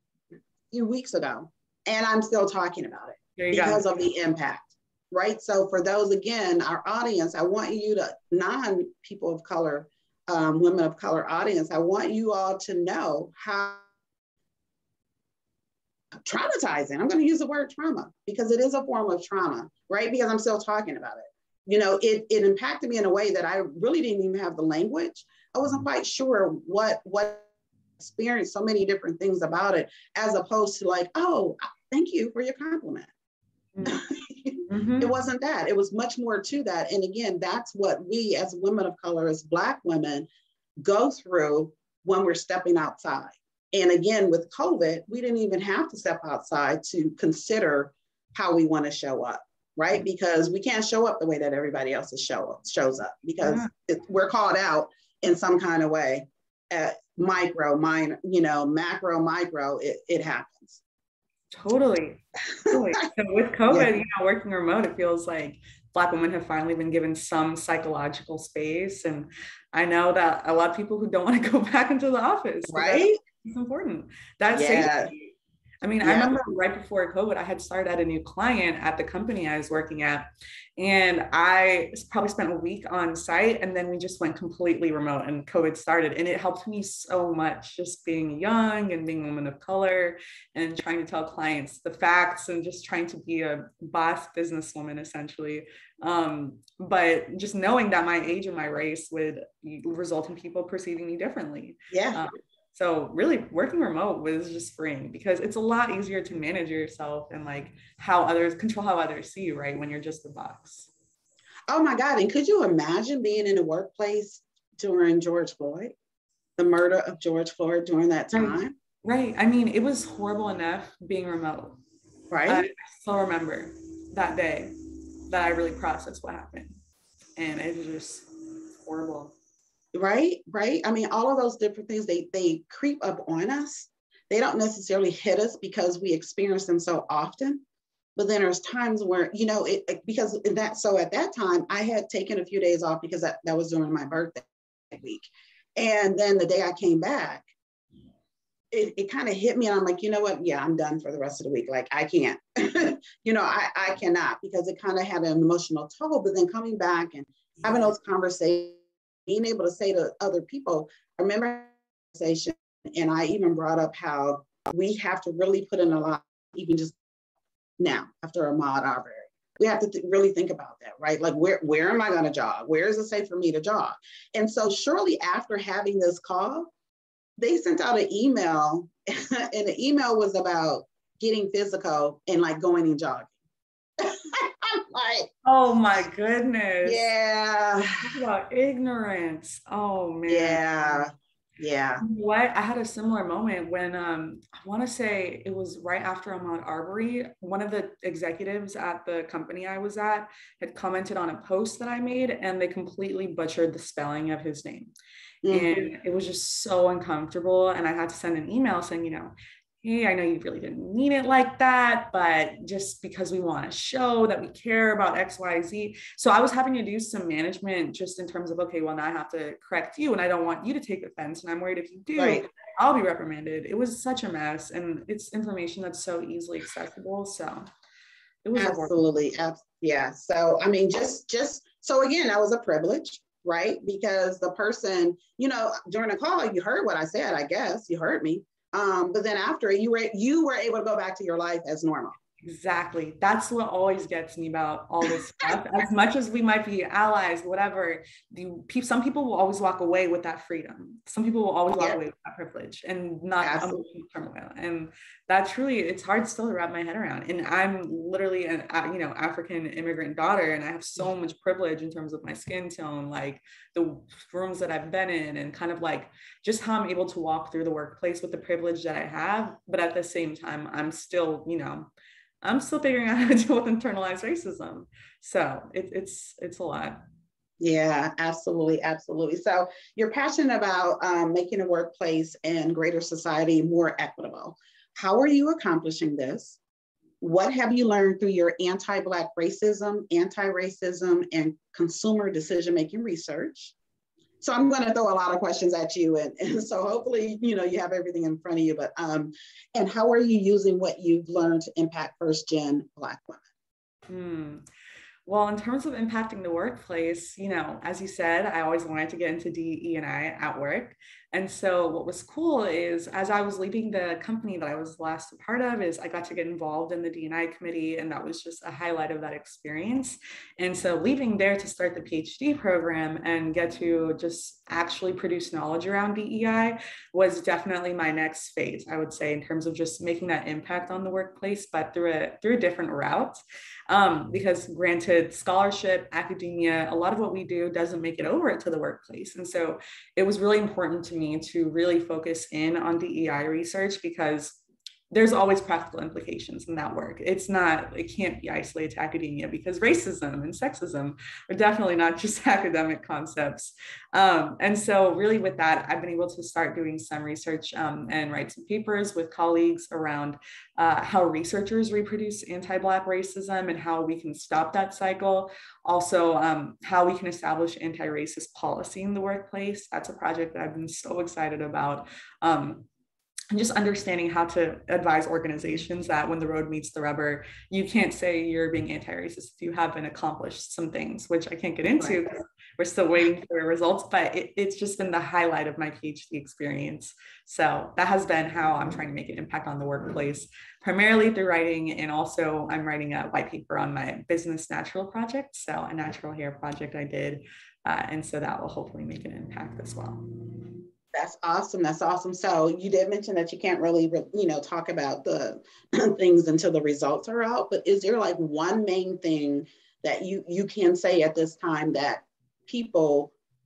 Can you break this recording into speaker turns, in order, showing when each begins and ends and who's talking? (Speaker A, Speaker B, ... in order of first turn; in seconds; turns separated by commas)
Speaker A: 0.7-13.8, Speaker B: 3.4-3.9, Speaker A: 16.2-27.5, Speaker A: 28.0-33.1, Speaker B: 33.7-34.0, Speaker A: 33.8-40.3, Speaker B: 34.7-35.1, Speaker A: 40.8-60.8, Speaker B: 53.4-53.7, Speaker B: 61.5-75.2, Speaker A: 72.7-73.2, Speaker A: 74.5-75.1, Speaker B: 75.8-110.9, Speaker A: 76.0-76.4, Speaker A: 101.9-102.2, Speaker A: 111.7-115.9, Speaker A: 116.6-118.7, Speaker B: 118.3-121.8, Speaker A: 122.3-122.7, Speaker B: 122.5-124.8, Speaker B: 125.3-126.8, Speaker B: 127.4-128.3, Speaker B: 128.8-129.3, Speaker A: 129.9-137.6, Speaker A: 138.2-147.5, Speaker A: 148.7-167.0, Speaker A: 167.8-176.7, Speaker A: 177.4-183.3, Speaker A: 184.0-185.3, Speaker B: 185.4-187.1, Speaker A: 186.8-188.1, Speaker B: 188.0-191.1, Speaker A: 190.3-192.0, Speaker B: 192.0-204.9, Speaker A: 205.4-205.9, Speaker B: 205.5-227.7, Speaker A: 222.2-222.5, Speaker B: 228.4-229.0, Speaker A: 228.6-242.2, Speaker B: 242.4-271.9, Speaker A: 253.4-253.8, Speaker B: 272.4-277.0, Speaker A: 277.6-286.6, Speaker A: 287.2-293.7, Speaker A: 294.4-303.4, Speaker B: 304.1-304.6, Speaker B: 305.3-344.6, Speaker B: 345.1-372.9, Speaker B: 373.5-400.5, Speaker A: 401.1-413.3